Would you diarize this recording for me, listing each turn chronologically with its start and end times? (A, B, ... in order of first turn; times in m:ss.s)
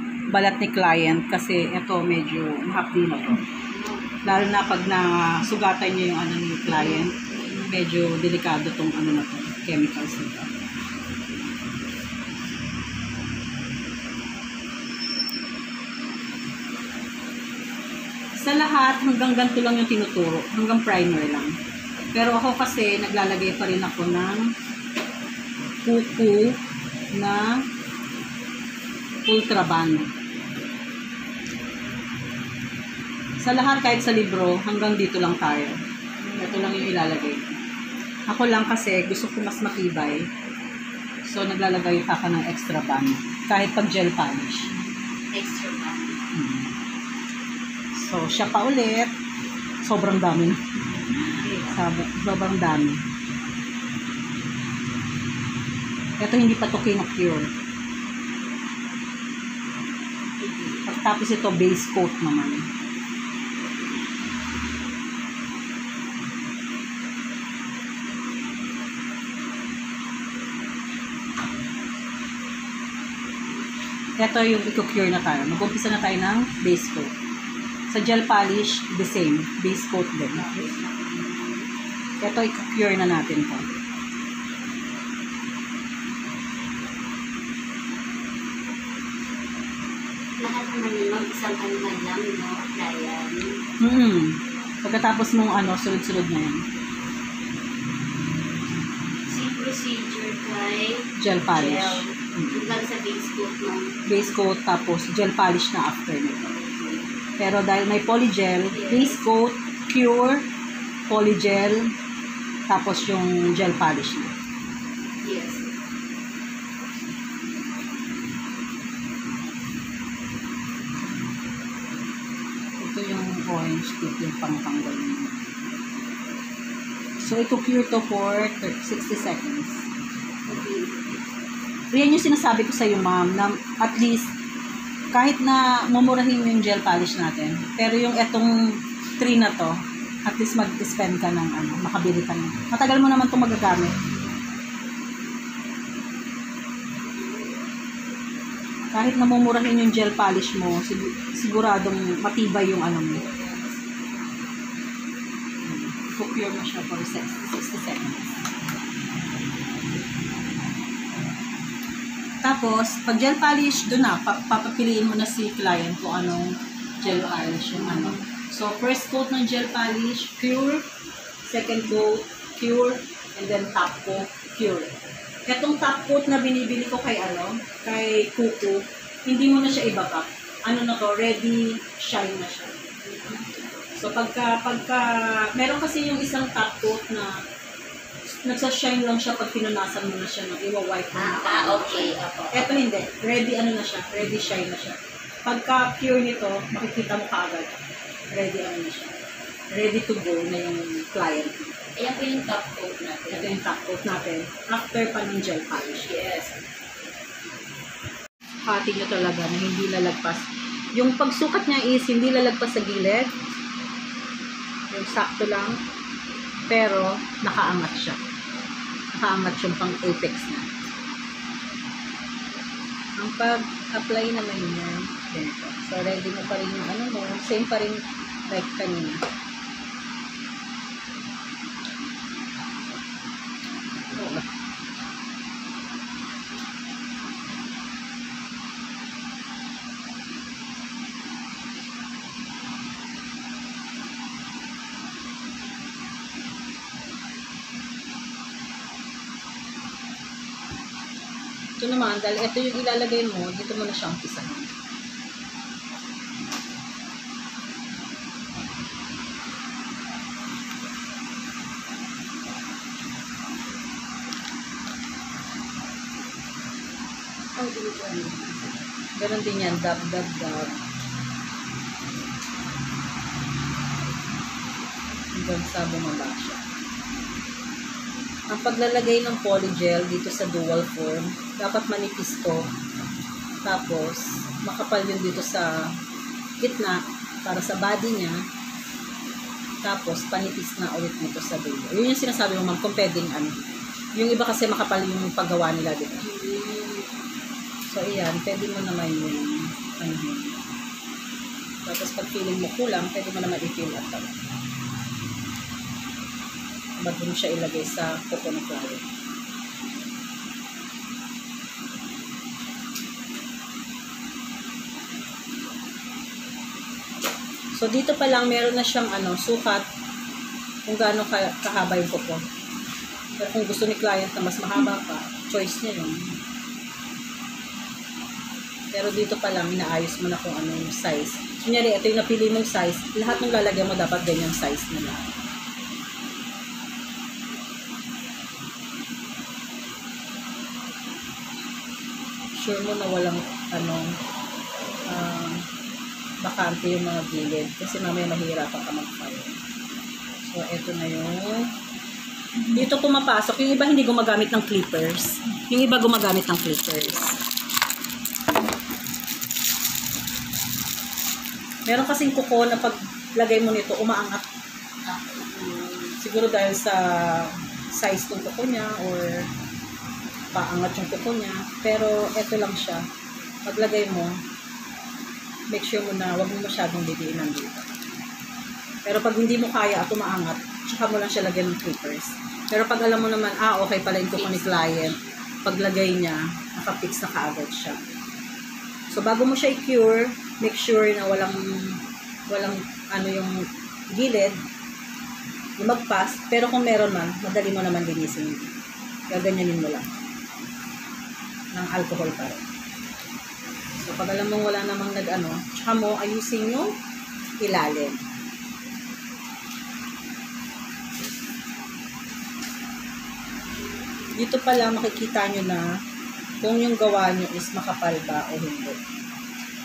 0:00.3-0:03.4 A
0:03.7-0:04.0 B
0:04.2-0:10.5 A
0:06.7-0:07.1 B
0:18.4-0:21.5 A
0:22.2-0:24.5 A
0:25.8-0:26.6 A
0:27.2-0:27.5 A
0:29.3-0:30.1 A
0:33.4-0:35.8 A
0:36.4-0:37.5 A
0:38.3-0:40.3 A
0:41.3-0:44.7 A
0:45.3-0:46.2 B
0:46.3-0:46.7 A
0:48.0-0:49.1 A
0:49.8-0:50.7 A
0:51.2-0:53.0 A
0:51.4-0:51.7 B
0:56.2-0:57.5 A
1:00.8-1:02.6 A
1:14.2-1:17.1 A
1:17.9-1:20.7 A
1:20.4-1:21.7 B
1:22.2-1:23.7 A
1:30.4-1:33.6 B
1:33.8-1:36.6 A
1:39.3-1:44.0 B
1:41.2-1:42.7 A
1:44.1-1:46.5 A
1:46.5-1:47.0 B
1:47.4-1:50.4 A
1:48.7-1:49.2 B
1:51.1-1:51.9 A
1:52.7-1:54.3 A
1:55.2-1:55.6 B
2:02.8-2:05.6 A
2:07.2-2:09.8 A
2:10.5-2:11.1 B
2:11.9-2:14.3 A
2:15.1-2:18.5 A
2:19.2-2:24.0 A
2:28.9-2:33.2 A
2:33.3-2:33.6 B
2:35.6-2:38.4 A
2:42.4-2:50.8 A
2:47.0-2:48.2 B
2:51.5-2:54.9 A
2:55.5-3:02.8 A
3:03.1-3:03.4 B
3:04.0-3:07.3 A
3:08.4-3:19.2 A
3:11.3-3:12.4 B
3:19.7-3:21.8 A
3:22.0-3:23.6 B
3:23.3-3:26.6 A
3:28.7-3:33.3 A
3:34.9-3:35.8 A
3:36.7-3:38.2 A
3:39.2-3:40.9 A
3:43.2-3:49.2 A
3:54.2-3:54.4 A
4:11.8-4:14.7 A
4:29.2-4:30.7 A
4:35.3-4:36.6 A
4:38.5-4:42.7 A
4:43.6-4:45.8 A
4:46.6-4:48.4 A
4:49.8-4:53.5 A
4:54.2-4:56.3 A
4:56.2-4:57.1 B
4:57.9-5:00.6 A
5:01.9-5:04.4 A
5:07.0-5:09.0 A
5:17.8-5:19.8 A
5:20.9-5:22.4 A
5:23.4-5:26.4 A
5:28.9-5:35.3 A
5:42.6-5:44.2 A
5:45.1-5:45.6 A
5:46.4-5:49.5 A
5:50.5-5:51.7 A
5:52.7-5:57.4 A
6:01.9-6:04.4 A
6:06.2-6:09.5 A
6:10.6-6:13.0 A
6:13.7-6:14.4 A
6:15.7-6:17.8 A
6:19.1-6:28.0 A
6:24.3-6:25.1 B
6:29.1-6:32.0 A
6:32.5-6:34.6 A
6:35.8-6:38.7 A
6:39.3-6:40.1 A
6:41.7-6:42.6 A
6:44.0-6:46.9 A
6:47.6-6:48.2 A
6:54.4-6:55.8 A
6:56.6-6:59.0 A